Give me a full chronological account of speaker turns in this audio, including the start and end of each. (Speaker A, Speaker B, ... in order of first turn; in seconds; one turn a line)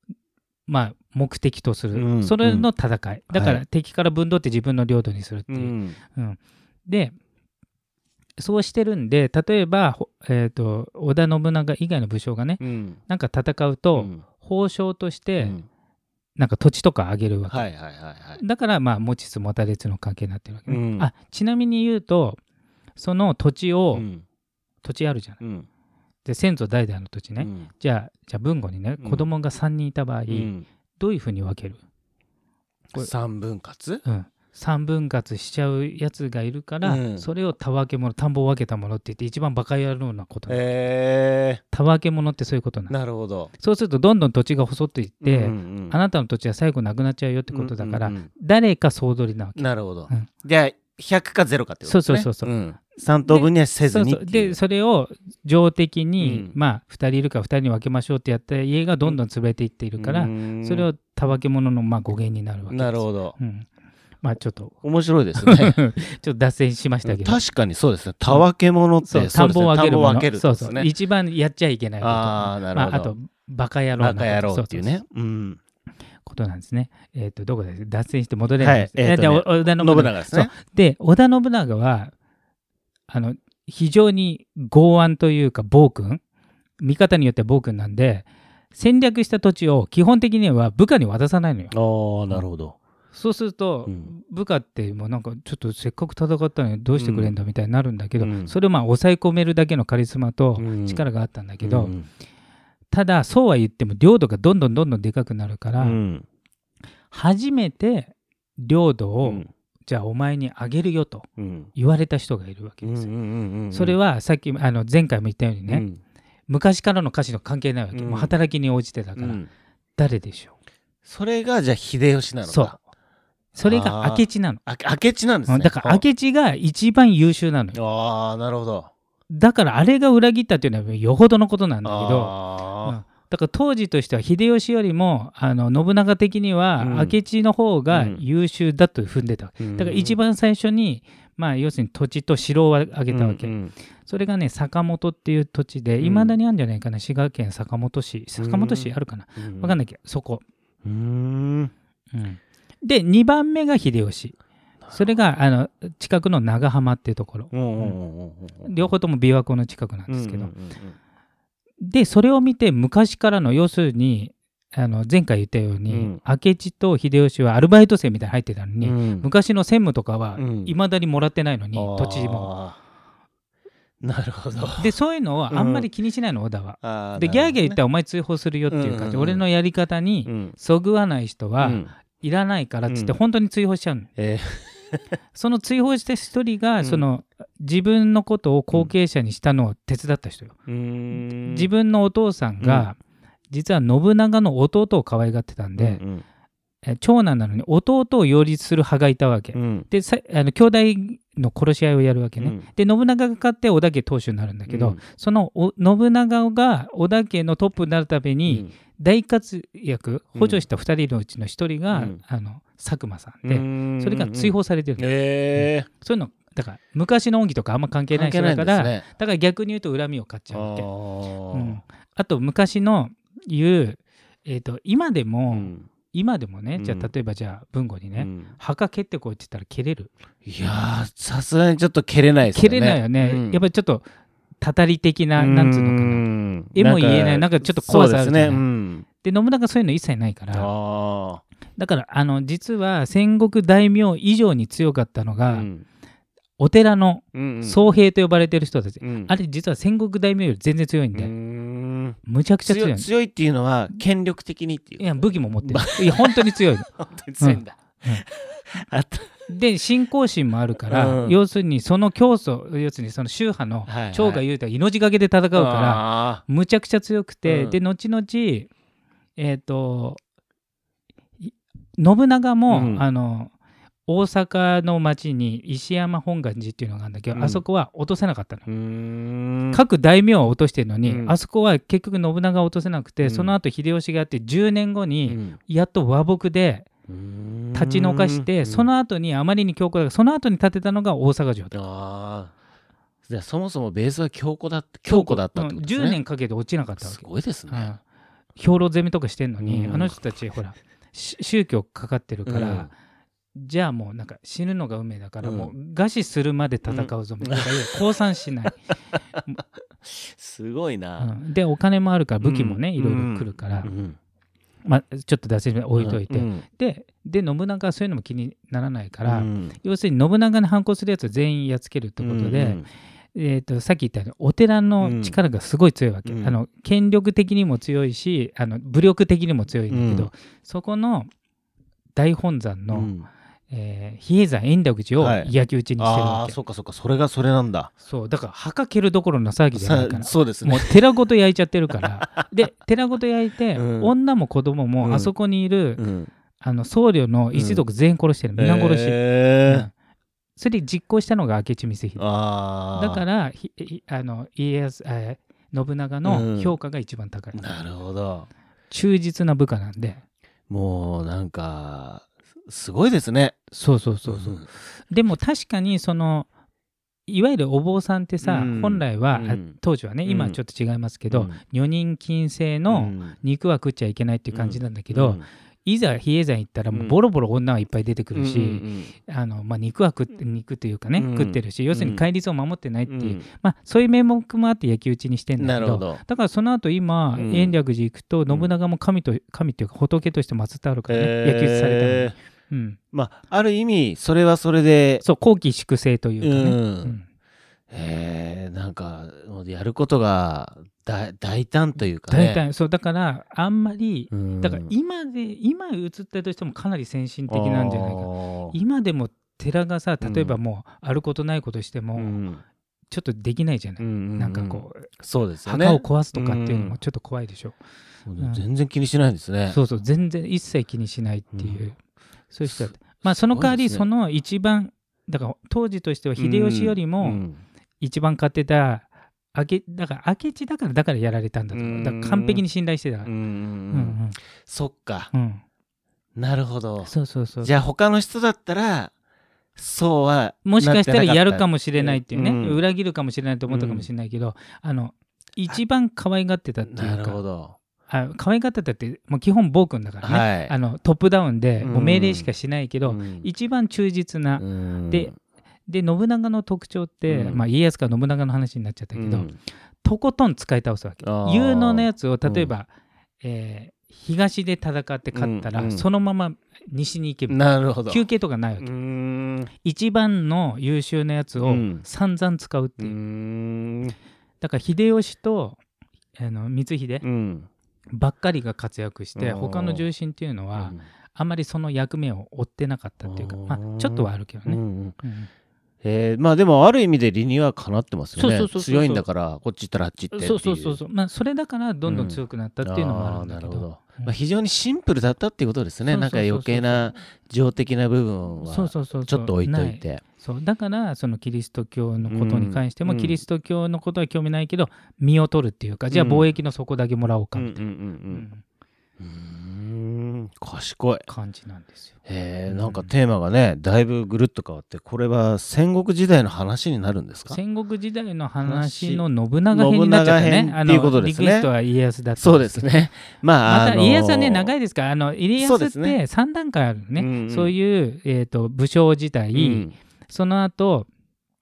Speaker A: 0.7-7.1
Speaker B: 1.9-2.7
Speaker B: 3.3-3.6
Speaker B: 5.5-6.0
Speaker A: 8.4-15.6
Speaker B: 12.6-13.0
Speaker B: 13.9-14.2
Speaker B: 15.4-15.7
Speaker A: 16.4-17.7
Speaker B: 17.5-18.4
Speaker A: 18.4-22.4
Speaker B: 20.7-21.1
Speaker A: 23.0-24.1
Speaker B: 23.9-24.2
Speaker A: 24.8-25.4
Speaker B: 25.4-25.7
Speaker A: 26.2-31.8
Speaker B: 27.4-27.7
Speaker B: 29.0-29.3
Speaker B: 30.3-30.6
Speaker B: 33.0-34.0
Speaker A: 34.0-40.6
Speaker B: 36.8-37.3
Speaker B: 40.5-41.6
Speaker A: 41.7-42.9
Speaker B: 42.9-43.5
Speaker A: 43.6-50.3
Speaker B: 45.2-46.0
Speaker B: 47.5-48.3
Speaker B: 49.5-54.6
Speaker A: 51.8-52.5
Speaker A: 53.2-63.7
Speaker B: 56.2-56.5
Speaker B: 60.0-60.9
Speaker B: 62.7-63.4
Speaker A: 64.2-64.8
Speaker B: 64.8-65.8
Speaker A: 65.4-67.4
Speaker B: 67.0-70.9
Speaker A: 69.0-75.0
Speaker B: 72.0-73.1
Speaker B: 74.0-75.6
Speaker A: 76.2-82.1
Speaker B: 78.6-80.5
Speaker A: 83.1-86.2
Speaker A: 86.8-91.7
Speaker B: 91.7-92.8
Speaker A: 93.1-101.9
Speaker B: 93.8-94.1
Speaker B: 96.9-97.3
Speaker B: 98.2-98.5
Speaker B: 100.6-101.0
Speaker B: 101.6-102.0
Speaker A: 102.9-106.0
Speaker B: 105.8-106.2
Speaker A: 107.1-113.1
Speaker B: 109.2-109.5
Speaker B: 111.4-111.7
Speaker B: 112.8-114.0
Speaker A: 113.7-115.8
Speaker B: 115.7-116.0
Speaker A: 116.5-119.4
Speaker B: 117.9-118.3
Speaker B: 119.2-119.5
Speaker A: 120.0-120.5
Speaker B: 121.0-122.8
Speaker A: 122.5-122.8
Speaker A: 123.5-124.6
Speaker B: 123.6-126.0
Speaker A: 125.5-127.8
Speaker B: 127.7-128.9
Speaker A: 129.3-150.4
Speaker B: 131.8-133.0
Speaker B: 136.8-137.2
Speaker B: 137.9-138.2
Speaker B: 139.6-140.2
Speaker B: 143.1-143.7
Speaker B: 146.0-146.4
Speaker B: 148.4-149.8
Speaker B: 150.8-151.7
Speaker A: 152.1-154.4
Speaker A: 154.9-158.0
Speaker B: 157.5-158.9
Speaker A: 158.6-160.5
Speaker B: 160.1-160.9
Speaker A: 161.8-172.5
Speaker B: 165.9-166.2
Speaker B: 168.8-169.3
Speaker B: 170.3-170.7
Speaker B: 171.7-172.8
Speaker B: 174.0-174.9
Speaker A: 174.8-184.1
Speaker B: 175.5-175.9
Speaker B: 176.8-177.8
Speaker B: 178.7-179.4
Speaker B: 180.2-180.5
Speaker B: 181.6-181.9
Speaker B: 182.9-183.2
Speaker B: 184.2-185.0
Speaker A: 185.3-190.6
Speaker B: 190.7-191.7
Speaker A: 191.1-193.0
Speaker B: 192.6-192.9
Speaker A: 193.5-196.0
Speaker B: 195.8-196.2
Speaker A: 196.8-220.8
Speaker B: 199.5-199.9
Speaker B: 202.4-202.7
Speaker B: 204.7-205.0
Speaker B: 208.5-208.7
Speaker B: 210.3-210.6
Speaker B: 211.9-212.2
Speaker B: 213.4-215.9
Speaker B: 218.1-219.1
Speaker B: 220.5-221.8
Speaker A: 221.5-230.1
Speaker B: 225.5-225.9
Speaker B: 226.8-227.1
Speaker B: 228.2-228.5
Speaker B: 230.4-233.6
Speaker A: 232.5-234.1
Speaker A: 234.6-238.6
Speaker B: 235.4-239.1
Speaker A: 239.2-240.7
Speaker B: 240.5-241.4
Speaker A: 241.8-245.7
Speaker B: 245.5-245.8
Speaker A: 246.6-251.3
Speaker B: 247.3-247.9
Speaker B: 249.0-249.3
Speaker B: 251.1-259.5
Speaker A: 252.2-253.1
Speaker A: 255.0-256.9
Speaker A: 257.4-258.2
Speaker A: 259.5-268.7
Speaker B: 260.9-261.4
Speaker B: 263.9-264.4
Speaker B: 265.5-266.4
Speaker B: 267.4-267.8
Speaker A: 269.4-270.2
Speaker A: 271.4-273.5
Speaker B: 272.7-273.1
Speaker A: 274.1-278.6
Speaker B: 277.3-277.6
Speaker B: 278.7-279.8
Speaker A: 279.7-286.9
Speaker B: 281.0-281.4
Speaker B: 283.2-283.6
Speaker B: 285.2-285.6
Speaker B: 287.1-288.9
Speaker A: 287.7-291.7
Speaker B: 291.7-292.5
Speaker B: 293.2-296.2
Speaker A: 295.1-298.0
Speaker B: 297.0-297.9
Speaker A: 298.6-302.9
Speaker B: 299.6-300.2
Speaker B: 302.4-302.9
Speaker A: 303.5-308.8
Speaker B: 305.4-305.7
Speaker B: 306.9-307.9
Speaker B: 310.0-311.3
Speaker A: 311.2-313.9
Speaker B: 312.4-314.2
Speaker A: 314.8-322.8
Speaker B: 316.0-316.6
Speaker B: 319.2-319.8
Speaker B: 322.2-322.8
Speaker A: 323.3-331.3
Speaker B: 325.0-325.4
Speaker B: 326.2-326.6
Speaker B: 329.9-330.3
Speaker A: 332.1-333.1
Speaker B: 332.9-333.3
Speaker A: 333.7-336.6
Speaker B: 335.2-337.9
Speaker A: 338.0-346.0
Speaker B: 339.7-341.0
Speaker B: 342.2-342.5
Speaker B: 343.7-344.1
Speaker B: 345.0-345.3
Speaker B: 346.0-346.3
Speaker A: 346.6-349.9
Speaker B: 347.5-347.8
Speaker B: 348.6-349.9
Speaker A: 350.6-352.2
Speaker B: 352.2-353.2
Speaker A: 352.9-357.7
Speaker B: 356.2-356.8
Speaker B: 357.5-358.5
Speaker A: 358.9-360.2
Speaker B: 360.7-363.6
Speaker A: 363.7-366.5
Speaker B: 364.3-364.7
Speaker A: 367.3-393.0
Speaker B: 368.4-370.6
Speaker B: 371.3-371.6
Speaker B: 372.9-373.4
Speaker B: 374.5-375.4
Speaker B: 378.3-379.1
Speaker B: 381.1-382.2
Speaker B: 383.1-383.4
Speaker B: 385.6-386.2
Speaker B: 387.3-387.8
Speaker B: 391.1-392.3
Speaker B: 393.1-395.2
Speaker A: 395.2-397.2
Speaker B: 396.4-397.1
Speaker B: 397.9-402.6
Speaker A: 402.3-412.4
Speaker B: 404.3-404.9
Speaker B: 407.5-408.8
Speaker B: 410.2-410.6
Speaker B: 412.1-412.6
Speaker A: 413.1-415.1
Speaker B: 414.0-417.0
Speaker A: 415.6-417.8
Speaker B: 418.3-419.8
Speaker A: 419.7-421.9
Speaker B: 421.5-421.9
Speaker A: 422.5-427.4
Speaker B: 422.6-424.1
Speaker B: 426.4-427.6
Speaker A: 428.0-433.3
Speaker B: 431.7-432.6
Speaker B: 433.2-435.3
Speaker A: 433.9-434.4
Speaker A: 435.3-435.6
Speaker B: 436.4-439.1
Speaker A: 437.0-437.7
Speaker B: 439.8-442.8
Speaker A: 440.6-447.4
Speaker B: 443.7-444.1
Speaker B: 446.9-447.8
Speaker A: 448.1-455.3
Speaker B: 450.2-450.7
Speaker B: 451.8-452.5
Speaker B: 453.0-453.5
Speaker B: 454.6-455.3
Speaker A: 455.9-459.5
Speaker B: 457.3-457.6
Speaker B: 459.1-459.6
Speaker A: 460.0-462.9
Speaker B: 461.2-462.7
Speaker A: 463.4-468.9
Speaker B: 465.3-466.0
Speaker B: 467.5-468.2
Speaker B: 468.8-469.7
Speaker A: 469.8-473.1
Speaker B: 471.6-472.0
Speaker B: 473.0-474.1
Speaker A: 474.6-475.8
Speaker A: 476.4-477.2
Speaker B: 477.2-477.7
Speaker A: 478.1-485.5
Speaker B: 479.4-480.1
Speaker B: 480.7-481.0
Speaker B: 483.2-485.2
Speaker B: 486.0-491.0
Speaker A: 488.4-489.2
Speaker A: 490.3-494.3
Speaker B: 492.1-500.2
Speaker A: 496.1-497.1
Speaker A: 498.6-508.6
Speaker B: 502.3-503.4
Speaker B: 506.1-506.5
Speaker B: 507.5-508.5
Speaker B: 509.2-511.2
Speaker A: 511.3-512.1
Speaker B: 512.2-517.6
Speaker A: 512.7-513.1
Speaker A: 517.5-522.9
Speaker B: 518.6-521.7
Speaker B: 522.4-524.7
Speaker A: 523.6-531.1
Speaker B: 525.6-526.2
Speaker B: 527.1-527.7
Speaker B: 529.5-530.0